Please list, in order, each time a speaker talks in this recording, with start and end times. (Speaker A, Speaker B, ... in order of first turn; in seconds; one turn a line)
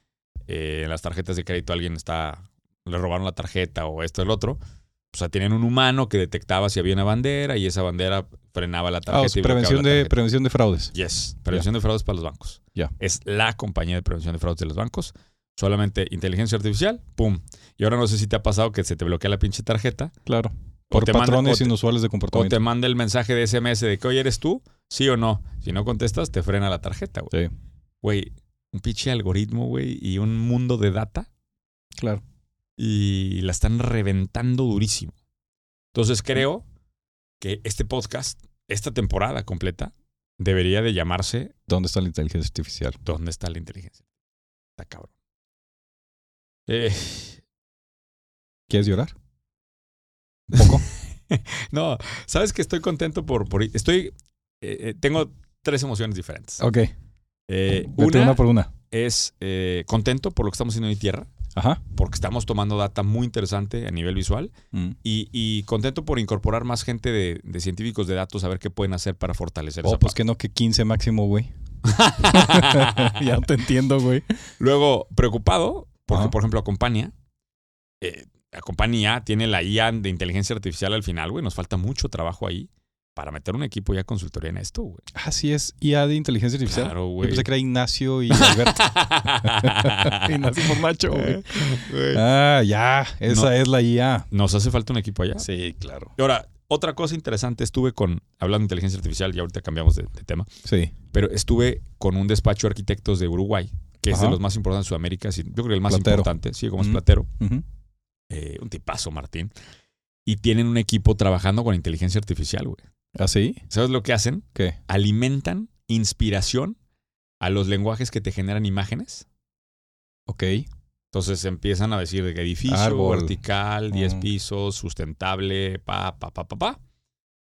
Speaker A: 0.5-4.6
Speaker A: 5.1-10.1
Speaker B: 9.1-10.9
Speaker A: 10.9-20.1
Speaker B: 20.2-22.6
Speaker A: 20.9-21.7
Speaker A: 22.3-27.3
Speaker A: 28.0-31.3
Speaker B: 32.0-32.2
Speaker A: 32.8-35.1
Speaker A: 35.9-36.6
Speaker A: 37.4-41.5
Speaker B: 41.7-43.0
Speaker A: 43.0-44.0
Speaker A: 44.8-45.1
Speaker A: 46.7-47.4
Speaker B: 48.7-49.1
Speaker A: 50.5-56.6
Speaker B: 50.5-50.8
Speaker B: 56.6-56.9
Speaker A: 57.5-61.3
Speaker B: 57.7-58.7
Speaker B: 61.5-61.8
Speaker A: 61.9-64.5
Speaker A: 65.0-70.2
Speaker B: 69.8-71.5
Speaker A: 71.8-73.2
Speaker B: 72.2-74.4
Speaker A: 74.6-77.1
Speaker A: 78.0-85.0
Speaker B: 85.1-88.9
Speaker A: 86.7-87.5
Speaker A: 88.3-92.2
Speaker B: 89.4-94.3
Speaker A: 94.3-95.5
Speaker B: 95.4-96.1
Speaker A: 96.2-100.5
Speaker B: 100.6-100.9
Speaker A: 101.1-107.3
Speaker B: 104.1-104.4
Speaker B: 105.9-107.6
Speaker A: 108.3-109.5
Speaker A: 110.2-112.8
Speaker B: 113.1-113.6
Speaker A: 113.7-116.8
Speaker A: 117.4-119.2
Speaker B: 120.3-120.7
Speaker A: 121.1-126.8
Speaker B: 122.7-123.3
Speaker B: 123.9-124.2